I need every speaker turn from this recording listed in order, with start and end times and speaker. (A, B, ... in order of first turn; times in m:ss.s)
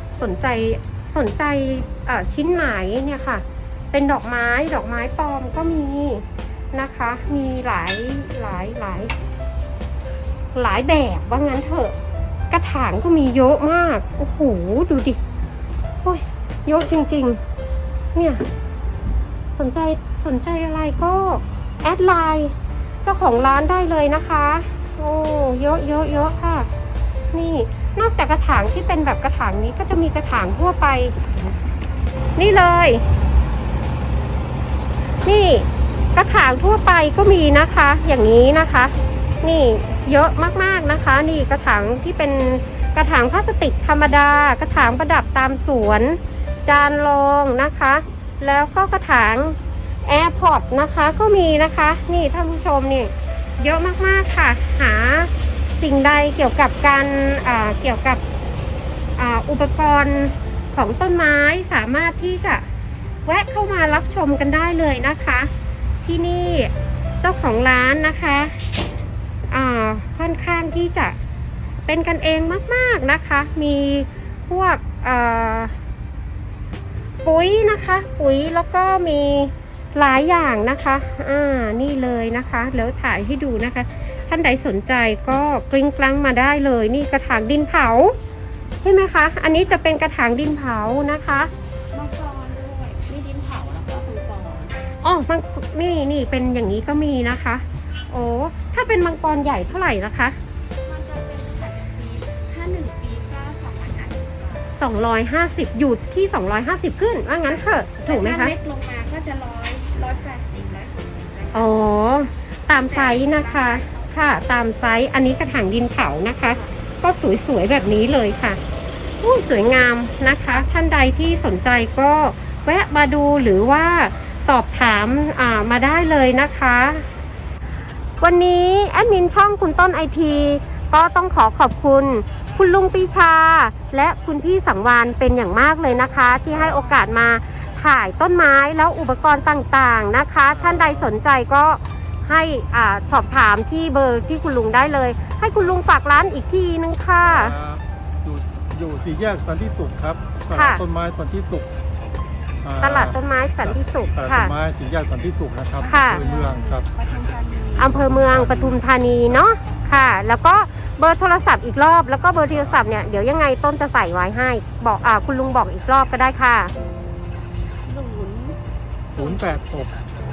0:00.2-0:09.1 A
0:10.5-0:11.9 A
0:12.5-0:15.2 A
0:16.0-0:17.4 A
0:18.1-0:18.4 A
0:19.5-0:26.7 A
0:27.3-0:31.2 A
0:32.4-0:33.0 A
0:35.2-0:58.2 A
0:59.2-1:02.6 A
1:03.2-1:05.5 A
1:06.0-1:08.6 A
1:09.5-1:11.2 A
1:11.9-1:15.7 A
1:17.2-1:28.2 A
1:28.8-1:31.5 A
1:31.9-1:34.7 B
1:35.0-1:40.4 A
1:40.8-1:44.8 B
1:44.8-1:48.5 A
1:48.0-1:51.8 B
1:51.5-1:58.6 A
1:52.7-1:54.4 B
1:56.4-1:56.7 B
1:59.2-2:07.1 A
2:08.2-2:27.5 A
2:20.5-2:21.1 C
2:27.2-2:31.7 C
2:30.5-2:30.8 A
2:32.6-2:36.8 C
2:32.8-2:34.5 A
2:35.8-2:38.0 B
2:35.8-2:36.2 A
2:37.8-2:46.7 A
2:37.8-2:39.4 C
2:47.8-2:48.6 B
2:49.1-2:50.1 C